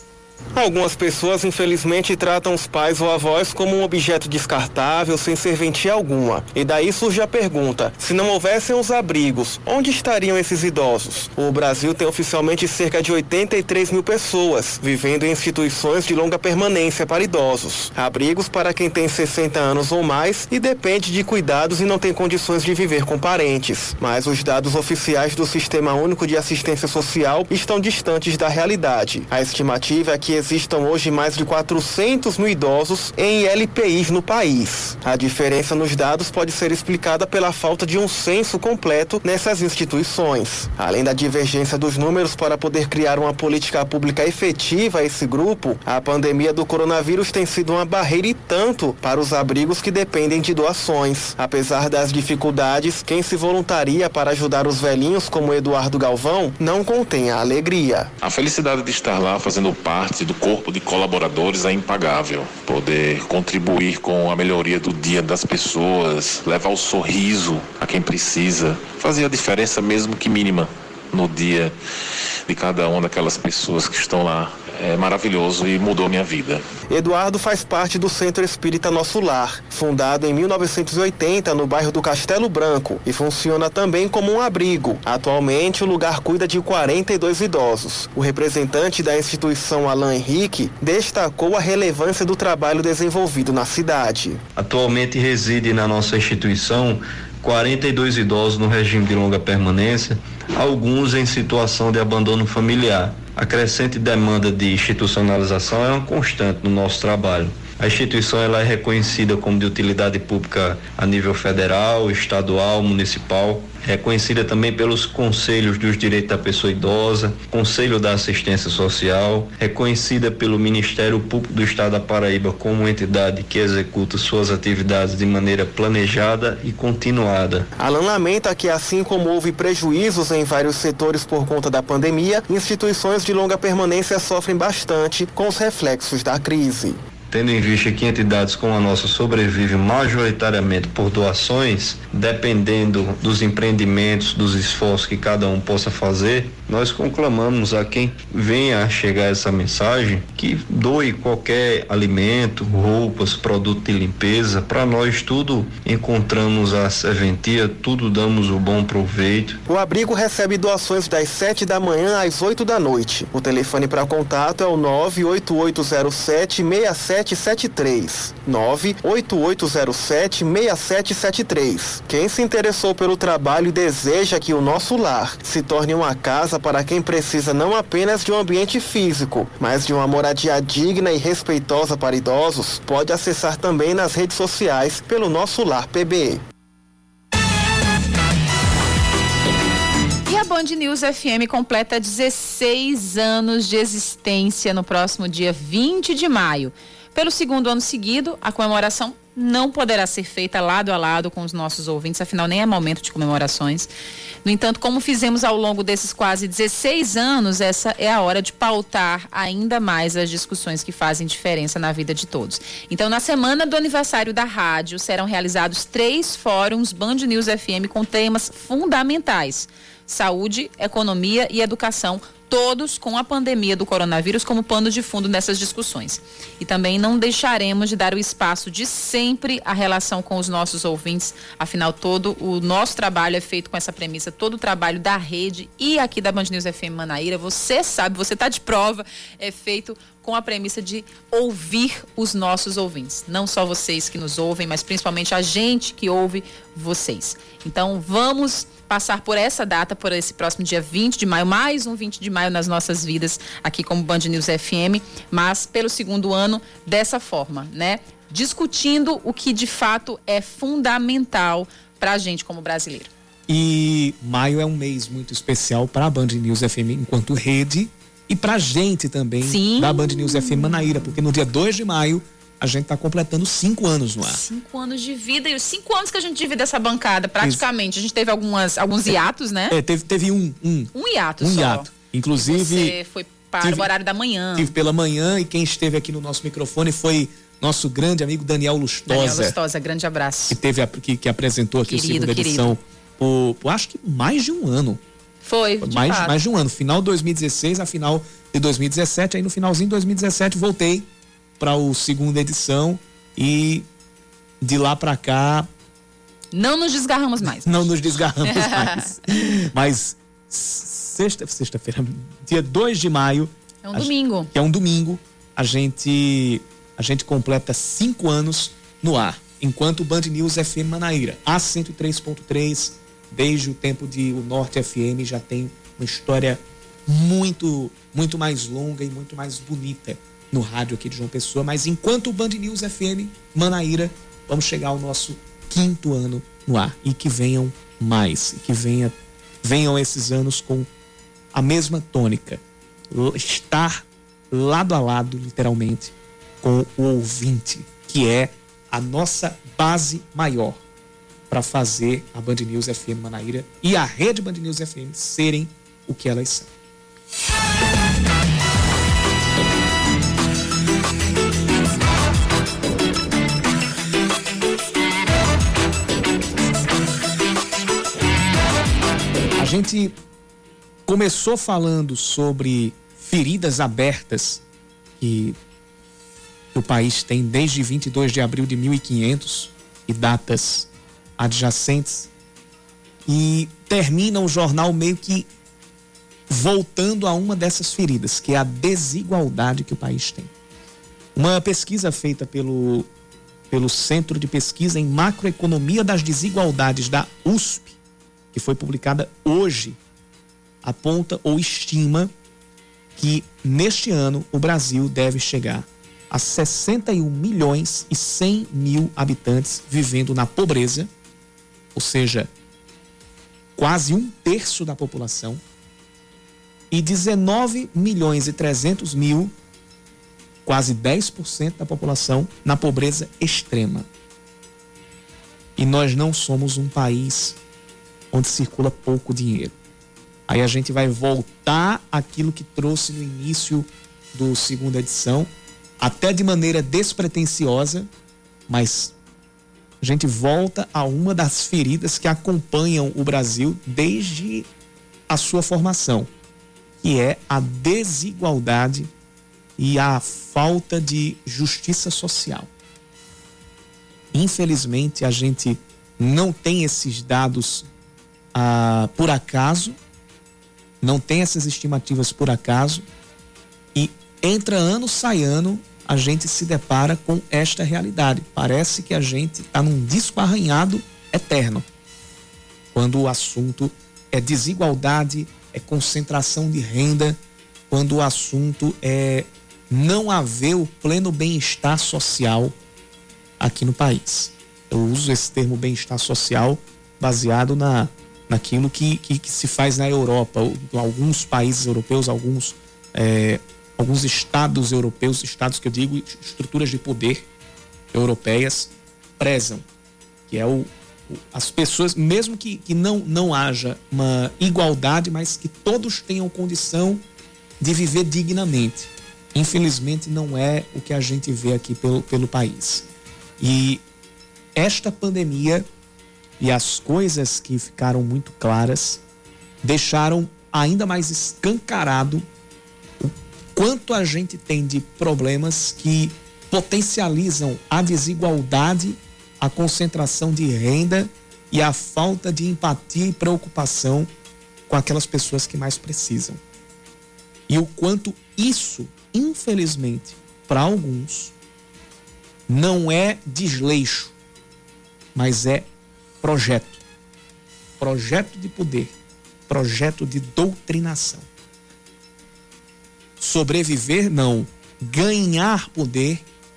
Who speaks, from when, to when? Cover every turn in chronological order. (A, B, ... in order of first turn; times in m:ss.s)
0:00.5-0:58.1 A
0:58.2-1:11.8 B
1:12.5-1:16.6 B
1:16.9-1:34.4 A
1:34.6-2:07.7 C
2:07.8-2:17.0 A
2:17.3-2:39.6 C
2:39.7-3:06.4 A
3:10.3-3:23.9 D
3:24.4-4:23.1 D
4:23.5-4:34.4 E
4:29.4-4:31.1 D
4:34.2-4:39.8 D
4:39.7-4:43.0 E
4:40.9-4:44.7 D
4:43.6-4:43.9 E
4:44.6-4:49.6 E
4:49.1-4:50.6 D
4:50.5-4:55.0 E
4:51.8-4:52.8 D
4:55.4-4:56.4 D
4:55.8-5:01.1 E
5:01.6-5:03.9 E
5:04.6-5:05.7 E
5:06.5-5:07.9 D
5:07.4-5:40.9 E
5:08.5-5:09.0 D
5:13.8-5:14.5 D
5:41.5-5:50.8 E
5:51.5-5:56.7 E
6:09.6-6:10.1 E
6:11.1-6:14.6 E
6:15.2-6:15.6 E
6:16.7-6:22.3 E
6:23.3-6:25.5 E
6:26.5-6:30.5 E
6:31.4-6:33.1 E
6:33.7-6:38.0 E
6:38.5-6:40.0 E
6:40.8-6:42.3 E
6:43.2-6:51.1 E
6:51.9-6:52.5 E
6:53.8-6:55.6 E
6:56.9-6:59.5 E
7:00.6-7:04.1 E
7:05.8-7:07.6 E
7:08.3-7:09.8 E
7:10.5-7:18.1 E
7:18.7-7:19.2 E
7:20.0-7:24.7 E
7:25.3-7:26.3 E
7:27.0-7:29.1 E
7:29.8-7:32.7 E
7:34.3-7:37.9 E
7:38.5-7:40.0 E
7:41.0-7:43.1 E
7:44.0-7:51.9 E
7:52.9-8:02.8 E
8:03.6-8:17.5 E
8:18.1-8:19.8 E
8:20.5-8:27.2 E
8:27.8-8:33.1 E
8:33.6-8:34.0 E
8:34.8-8:35.9 E
8:36.6-8:39.2 E
8:39.8-8:42.5 E
8:43.2-8:54.3 E
8:54.9-8:56.6 E
8:57.7-9:01.5 E
9:02.7-9:04.3 E
9:05.4-9:05.9 E
9:06.4-9:07.0 E
9:08.0-9:09.1 E
9:09.7-9:11.5 E
9:13.4-9:16.4 E